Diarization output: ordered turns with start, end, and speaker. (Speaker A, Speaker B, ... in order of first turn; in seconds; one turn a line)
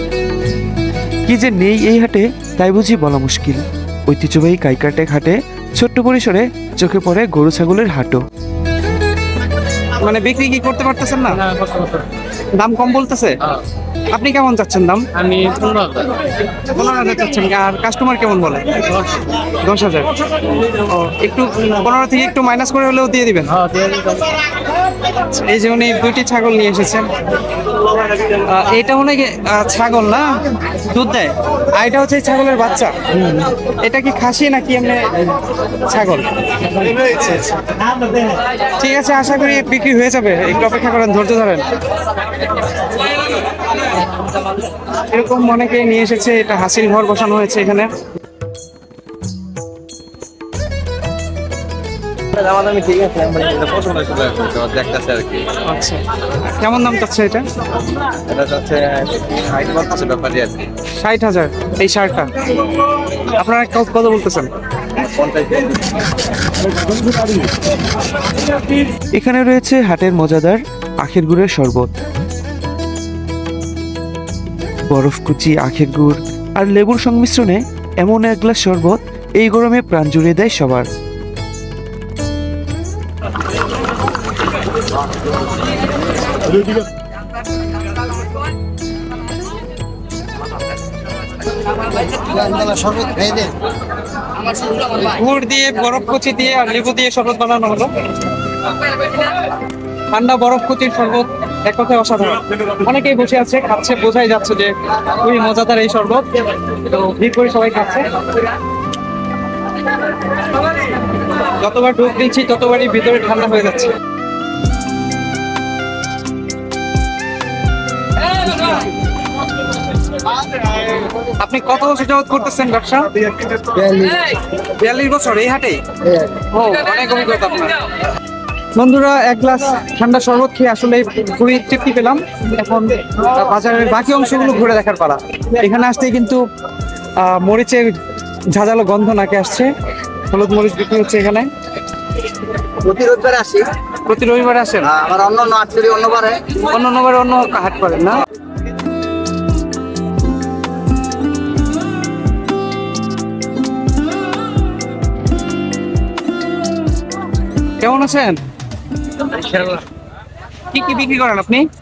Speaker A: 1.2-8.2
Speaker B: 10.0-11.4
Speaker C: 11.5-12.0
Speaker B: 12.6-13.4
Speaker B: 14.1-15.1
Speaker C: 15.2-16.1
Speaker B: 16.7-18.8
Speaker C: 18.9-19.2
Speaker B: 19.4-20.1
Speaker B: 20.7-23.5
Speaker C: 23.6-24.3
Speaker B: 25.1-27.1
Speaker B: 28.4-35.2
Speaker B: 35.7-37.6
Speaker B: 38.8-41.6
Speaker B: 45.0-47.9
Speaker D: 52.4-55.5
Speaker E: 52.5-53.5
Speaker B: 55.6-57.5
Speaker D: 58.3-60.5
Speaker B: 61.0-62.3
Speaker B: 63.3-64.5
Speaker D: 65.0-65.7
Speaker A: 69.2-71.9
Speaker A: 74.9-80.9
Speaker E: 92.5-93.5
Speaker B: 94.8-97.9
Speaker B: 100.1-108.2
Speaker B: 111.3-113.9
Speaker B: 121.2-123.1
Speaker E: 123.7-124.2
Speaker B: 124.7-125.8
Speaker B: 126.4-127.8
Speaker B: 128.8-136.4
Speaker B: 137.2-138.0
Speaker B: 138.5-139.7
Speaker B: 140.2-141.5
Speaker E: 142.8-143.7
Speaker B: 144.1-144.9
Speaker E: 144.9-146.4
Speaker B: 146.6-148.2
Speaker B: 157.8-158.4
Speaker B: 160.7-161.7